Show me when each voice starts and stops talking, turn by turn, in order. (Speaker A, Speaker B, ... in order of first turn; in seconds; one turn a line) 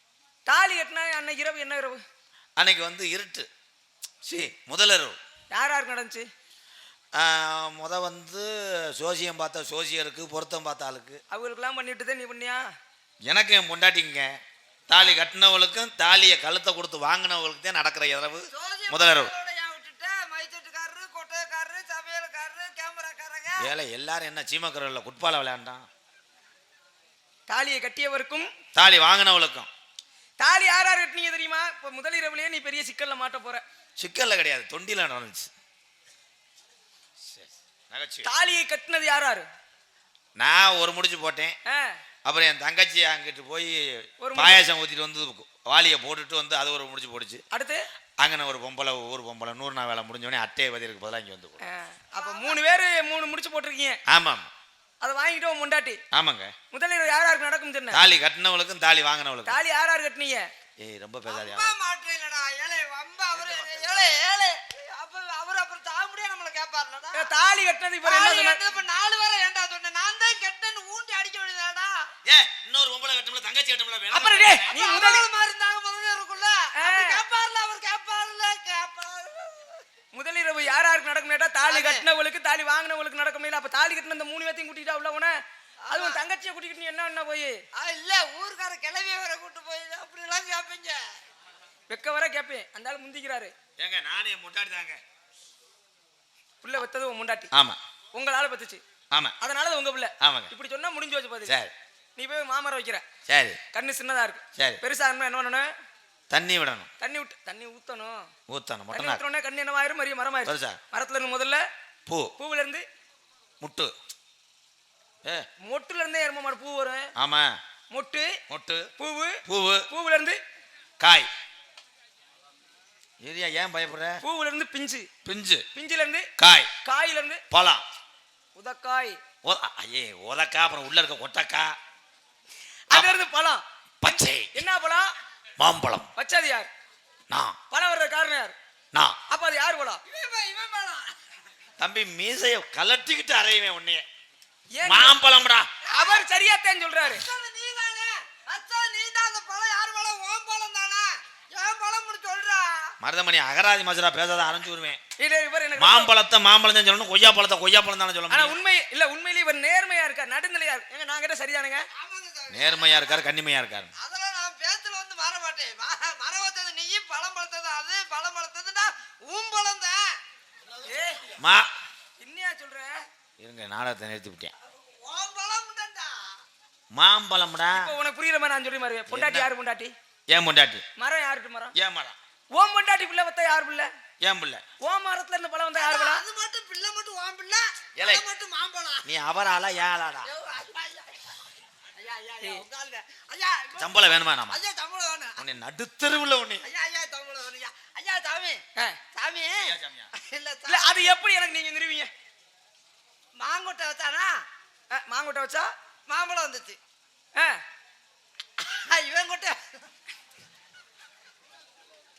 Speaker A: 0.5-2.0
Speaker B: 2.6-3.5
Speaker B: 4.2-5.2
Speaker A: 5.5-6.3
Speaker B: 7.2-11.2
Speaker A: 11.3-12.6
Speaker B: 13.3-14.3
Speaker B: 14.9-19.3
Speaker C: 18.5-23.7
Speaker B: 23.6-25.9
Speaker A: 27.5-28.5
Speaker B: 28.8-29.7
Speaker A: 30.4-33.6
Speaker B: 34.0-35.5
Speaker B: 37.2-38.3
Speaker A: 38.2-39.5
Speaker B: 40.4-41.5
Speaker A: 41.7-42.0
Speaker B: 42.3-47.4
Speaker A: 44.2-44.6
Speaker A: 47.5-47.8
Speaker B: 48.2-51.6
Speaker A: 51.6-54.0
Speaker C: 52.1-52.6
Speaker B: 54.1-54.5
Speaker A: 55.0-56.0
Speaker B: 56.1-56.5
Speaker A: 56.7-58.0
Speaker B: 57.9-59.6
Speaker A: 59.5-60.5
Speaker B: 60.8-61.7
Speaker C: 61.3-67.3
Speaker B: 63.4-64.2
Speaker A: 67.1-68.6
Speaker C: 68.0-72.1
Speaker B: 72.2-74.7
Speaker C: 74.1-79.8
Speaker A: 74.2-75.2
Speaker A: 76.8-77.2
Speaker A: 80.1-85.3
Speaker C: 81.6-82.1
Speaker C: 85.8-86.2
Speaker A: 85.9-87.6
Speaker C: 87.8-91.0
Speaker A: 91.9-93.5
Speaker B: 93.8-95.0
Speaker A: 96.6-97.5
Speaker B: 97.5-97.8
Speaker A: 98.1-98.8
Speaker A: 99.4-101.5
Speaker B: 100.2-100.5
Speaker B: 101.5-101.7
Speaker A: 102.2-103.0
Speaker B: 103.3-103.6
Speaker A: 103.7-105.7
Speaker B: 106.3-106.9
Speaker A: 107.0-108.3
Speaker B: 108.5-109.2
Speaker A: 108.9-111.6
Speaker B: 110.5-110.8
Speaker B: 112.1-112.3
Speaker A: 112.4-112.8
Speaker B: 113.6-113.9
Speaker A: 115.6-117.1
Speaker B: 117.2-117.6
Speaker A: 117.9-118.3
Speaker B: 118.5-118.9
Speaker A: 119.0-120.4
Speaker B: 119.5-119.9
Speaker B: 121.0-121.3
Speaker B: 123.2-124.2
Speaker A: 124.2-125.1
Speaker B: 125.2-125.6
Speaker A: 125.7-126.3
Speaker B: 126.4-126.7
Speaker A: 126.8-127.4
Speaker B: 127.5-127.8
Speaker A: 128.6-129.2
Speaker B: 129.4-131.7
Speaker A: 132.9-133.6
Speaker B: 134.0-134.6
Speaker A: 134.5-135.1
Speaker B: 135.6-136.1
Speaker A: 136.2-136.7
Speaker B: 137.3-137.6
Speaker A: 137.7-138.6
Speaker A: 139.3-140.0
Speaker C: 140.1-141.2
Speaker B: 141.8-144.0
Speaker A: 144.8-145.2
Speaker B: 144.8-145.7
Speaker A: 145.9-147.2
Speaker C: 145.9-146.2
Speaker C: 147.1-152.9
Speaker B: 153.0-155.0
Speaker A: 155.2-156.1
Speaker B: 155.8-158.6
Speaker A: 158.3-161.9
Speaker C: 162.0-163.2
Speaker B: 162.5-163.9
Speaker C: 164.0-170.2
Speaker A: 170.8-171.3
Speaker B: 171.4-171.7
Speaker A: 172.2-172.9
Speaker B: 173.4-174.5
Speaker C: 174.7-176.2
Speaker B: 176.9-177.9
Speaker A: 177.7-179.9
Speaker B: 179.1-179.5
Speaker B: 180.3-180.8
Speaker A: 181.0-181.7
Speaker B: 181.8-182.2
Speaker A: 182.6-183.9
Speaker B: 184.2-184.6
Speaker A: 184.8-186.2
Speaker C: 185.8-189.1
Speaker B: 188.0-188.2
Speaker B: 189.0-190.3
Speaker C: 190.2-191.3
Speaker C: 192.0-195.4
Speaker B: 193.8-194.6
Speaker B: 195.4-196.7
Speaker C: 196.6-198.6
Speaker C: 199.1-201.2
Speaker B: 199.6-200.1
Speaker A: 200.7-202.1
Speaker C: 203.4-204.3
Speaker A: 204.9-205.7
Speaker C: 206.1-206.8
Speaker A: 207.4-207.6
Speaker C: 208.6-209.6